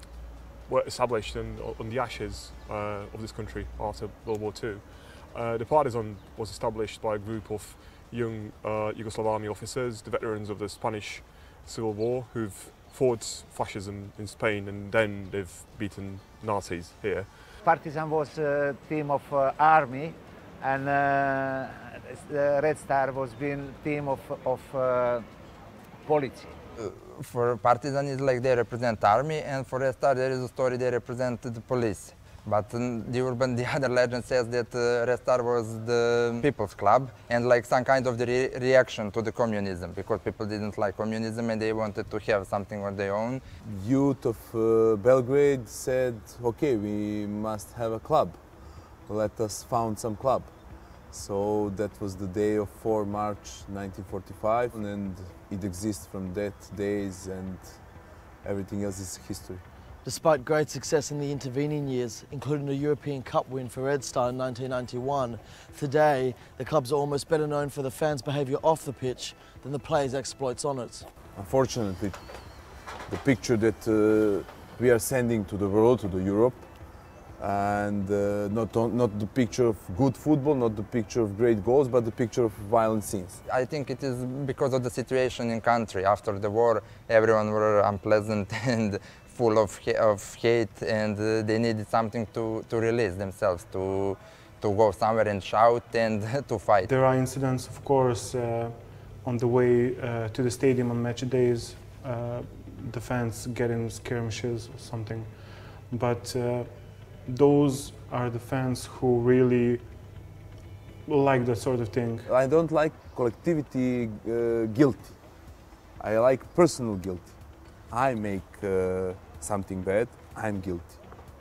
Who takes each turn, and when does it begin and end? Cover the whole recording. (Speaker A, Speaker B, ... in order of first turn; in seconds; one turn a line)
Speaker A: 0.7-17.4
Speaker B: 17.6-25.3
Speaker B: 26.1-26.6
Speaker C: 26.8-43.4
Speaker D: 43.6-48.4
Speaker D: 49.1-50.5
Speaker D: 51.1-57.8
Speaker D: 58.4-59.6
Speaker E: 60.0-71.1
Speaker D: 71.3-72.2
Speaker D: 73.1-76.7
Speaker D: 77.4-83.4
Speaker C: 83.5-96.9
Speaker F: 96.8-109.9
Speaker F: 111.1-112.3
Speaker D: 112.3-115.2
Speaker D: 116.0-117.3
Speaker D: 117.9-121.0